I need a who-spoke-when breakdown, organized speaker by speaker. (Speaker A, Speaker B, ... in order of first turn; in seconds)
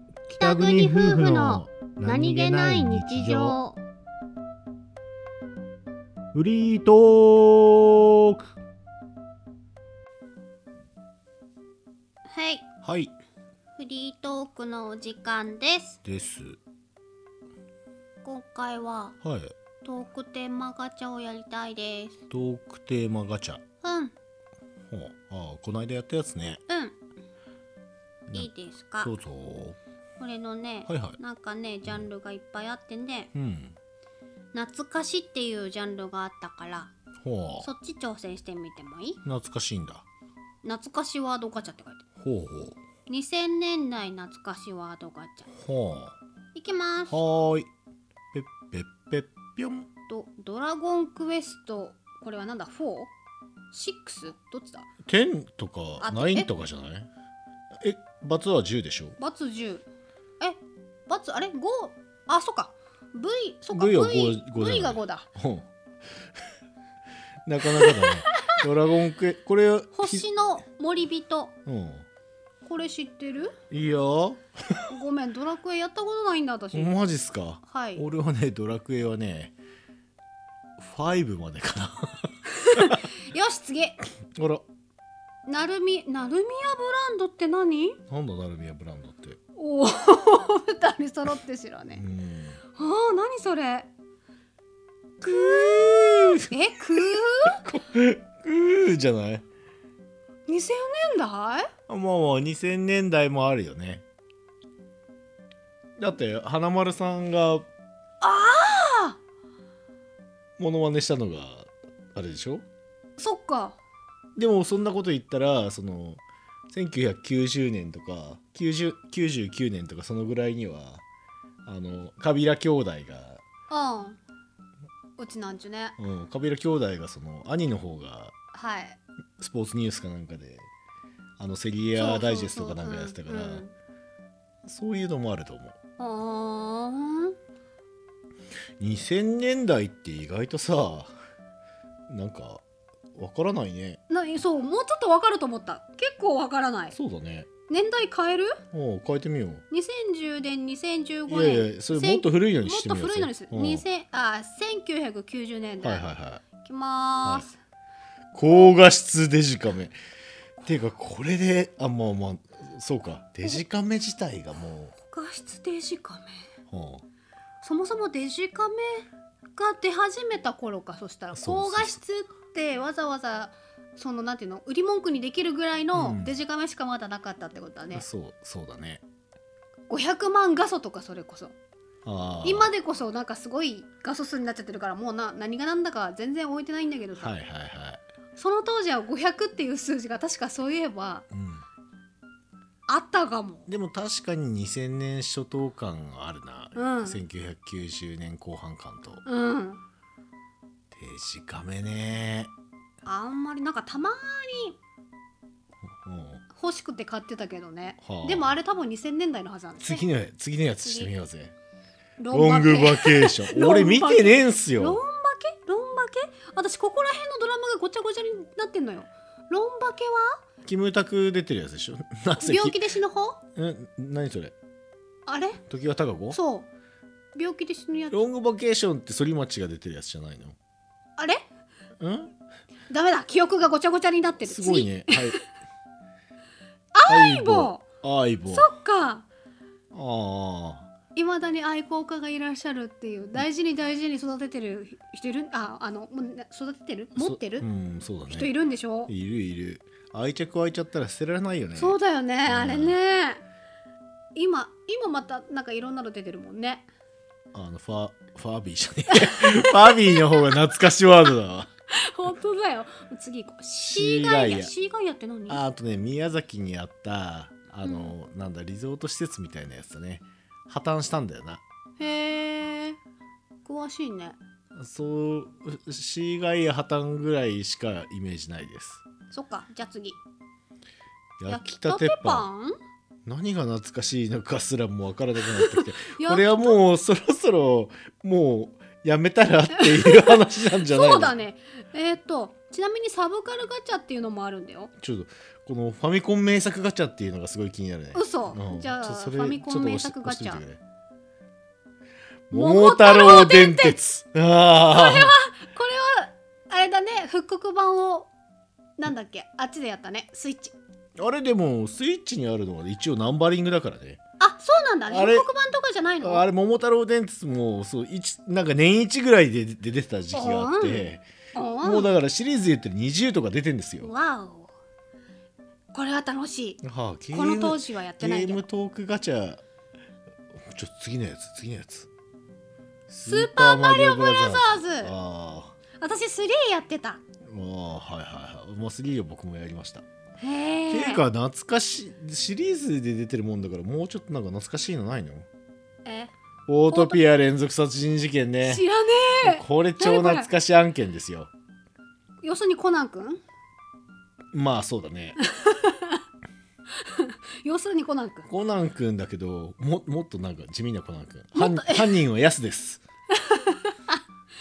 Speaker A: 0.3-3.6, 6.3-8.4, 12.8-13.1, 16.0-16.6, 19.2-19.5, 22.3-23.6, 24.9-26.6, 29.0-29.8, 30.9-31.2, 33.3-33.8, 37.2-37.7, 39.2-40.0, 42.2-42.8, 45.5-46.2, 47.1-47.7, 48.3-49.9, 55.0-57.1, 57.8-59.2, 63.7-65.7, 67.5-70.2, 71.7-72.0, 73.7-74.8, 76.7-79.5, 80.8-83.0, 84.4-84.6, 88.1-89.4, 91.9-92.6, 95.2-99.5, 101.9-104.0, 106.0-107.7, 110.6-112.6, 114.3-121.0, 121.6-123.4, 126.0-128.3, 129.4-130.7, 131.4-133.7, 134.6-135.8, 138.8-141.1, 142.1-142.6, 143.1-144.0, 146.9-147.5, 148.7-149.6, 151.3-153.8, 155.8-156.4, 158.3-159.9, 160.6-164.9, 166.7-167.0, 171.3-172.0, 175.9-176.4, 177.9-179.0, 182.0-182.7, 187.1-188.0, 191.3-191.7, 193.7-199.2, 200.9-202.5, 206.0-206.4, 208.0-208.6, 209.8-211.5, 212.3-215.0, 220.6-222.8, 223.6-224.5, 225.7-226.4, 228.1-230.6, 232.0-232.3, 234.4-235.4, 237.1-238.7, 239.9-240.9, 247.2-248.5, 249.1-253.0, 257.5-261.7, 263.8-264.7, 265.5-271.6, 274.8-279.1, 281.4-282.5, 283.2-291.3, 295.0-300.8, 302.5-305.3, 311.2-314.2, 315.1-315.5, 316.2-321.2, 321.8-324.1, 326.8-329.6, 330.7-332.1, 333.1-335.8, 337.5-340.0, 340.9-345.5, 346.7-348.8, 349.4-351.5, 354.5-355.4, 358.5-363.0
Speaker B: 0.3-3.8, 12.3-12.7, 13.7-16.0, 18.2-19.2, 19.8-22.2, 23.8-24.1, 26.7-27.0, 28.3-29.1, 30.2-33.3, 34.5-36.9, 37.6-39.2, 40.6-42.0, 43.0-45.5, 46.5-47.2, 50.1-53.1, 53.7-54.9, 56.0-56.5, 59.2-59.9, 60.4-65.3, 67.7-68.2, 69.9-71.5, 72.6-73.5, 74.9-77.0, 77.7-78.0, 82.6-84.0, 85.5-88.0, 89.5-92.0, 92.7-93.9, 95.3-95.7, 96.5-97.6, 100.5-101.7, 108.2-109.2, 113.2-113.8, 123.7-124.2, 125.2-126.0, 128.5-129.0, 131.9-133.7, 136.0-137.3, 144.1-146.9, 147.7-148.6, 149.7-156.0, 156.6-157.6, 165.1-166.4, 167.6-178.0, 179.9-181.5, 182.4-187.3, 188.3-191.2, 192.9-193.7, 196.7-197.2, 199.2-199.8, 203.0-204.8, 206.5-210.0, 210.8-211.1, 212.2-220.4, 222.4-223.4, 225.3-225.6, 226.3-226.7, 227.3-228.3, 232.9-235.4, 236.9-237.8, 238.5-239.2, 241.1-247.7, 248.3-249.1, 251.7-253.4, 254.3-256.9, 259.1-260.6, 261.9-265.6, 267.8-268.1, 272.0-273.0, 273.6-274.4, 279.3-280.2, 281.5-282.7, 285.4-286.8, 289.7-294.9, 298.1-300.6, 302.5-304.0, 304.9-308.3, 309.0-310.7, 314.4-316.4, 320.3-322.1, 324.0-324.7, 325.9-326.8, 327.3-328.6, 333.2-335.1, 336.0-337.2, 340.4-341.2, 346.0-346.3, 346.9-347.2, 348.6-350.5, 352.4-353.4, 355.4-356.2, 357.0-358.5, 361.5-362.2, 363.3-364.2